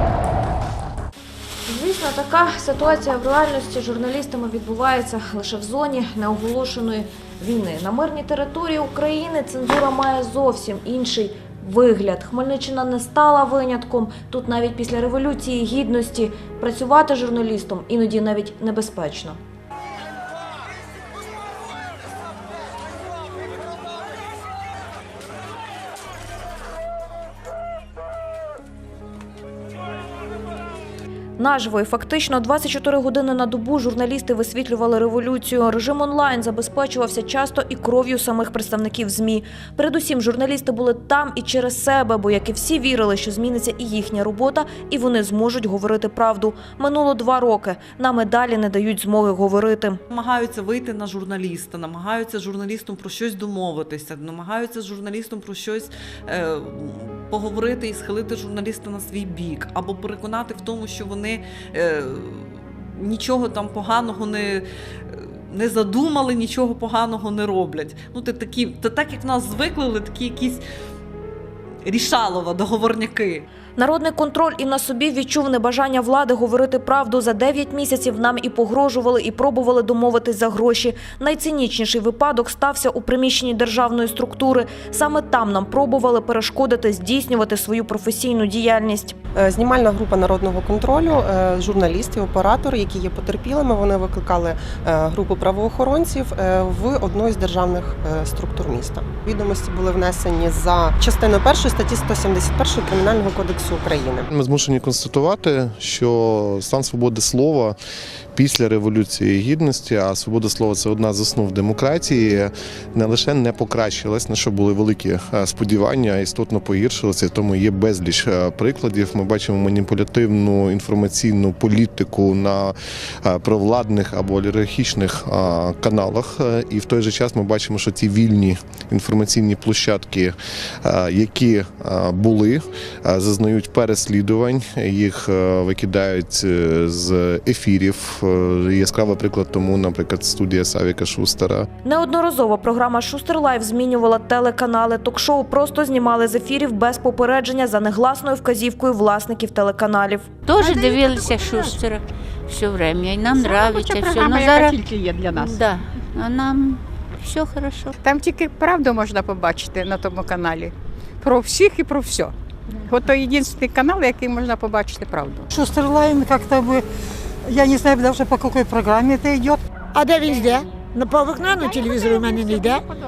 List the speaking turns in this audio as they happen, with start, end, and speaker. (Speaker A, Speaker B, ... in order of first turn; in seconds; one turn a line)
Speaker A: 1.7-19.4
Speaker A: 31.4-50.0
Speaker B: 50.1-70.6
Speaker B: 71.8-73.5
Speaker A: 73.8-89.2
Speaker C: 89.3-104.3
Speaker D: 104.3-107.8
Speaker D: 108.3-141.7
Speaker A: 141.8-150.3
Speaker E: 150.4-154.8
Speaker F: 150.6-151.1
Speaker G: 153.3-155.6
Speaker E: 155.3-157.9
Speaker G: 158.0-165.5
Speaker H: 165.5-166.8
Speaker H: 167.4-169.6
Speaker F: 169.9-172.8
Speaker G: 171.9-172.6